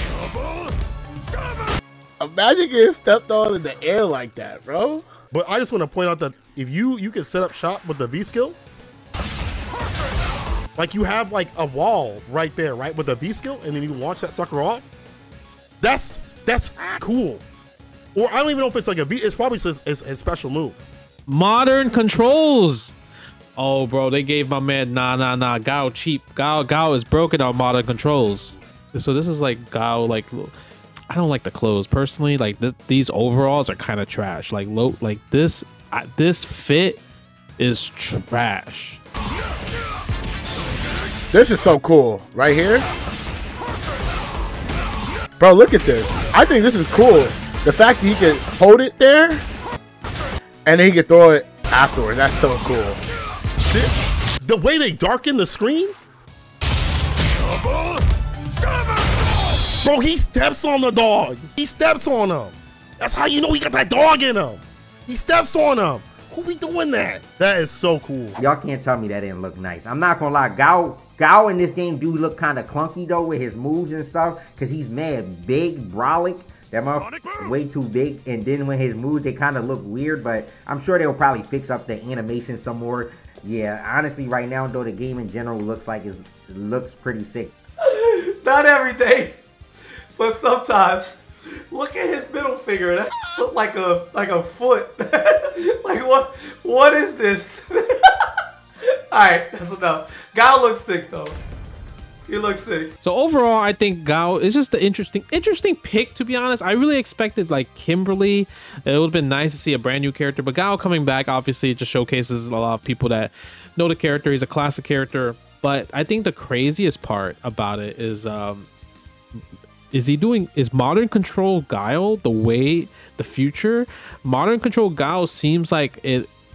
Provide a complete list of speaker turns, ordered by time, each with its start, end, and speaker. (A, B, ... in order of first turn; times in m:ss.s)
0:02.2-0:05.0 A
0:05.3-0:08.6 B
0:10.8-0:14.9 B
0:15.8-0:17.4 B
0:18.1-0:20.8 B
0:21.3-0:22.9 C
0:23.6-0:30.5 C
0:31.1-0:37.0 C
0:37.6-0:39.0 C
0:41.3-0:42.9 A
0:45.4-0:49.4 A
0:50.6-0:53.0 A
0:53.7-0:56.0 B
0:59.8-1:08.4 B
1:08.4-1:27.5 D
1:27.8-1:29.4 E
1:30.2-1:31.2 E
1:31.7-1:38.3 E
1:38.8-1:41.4 E
1:42.3-1:42.9 E
1:43.0-1:58.7 C
1:59.9-2:06.3 C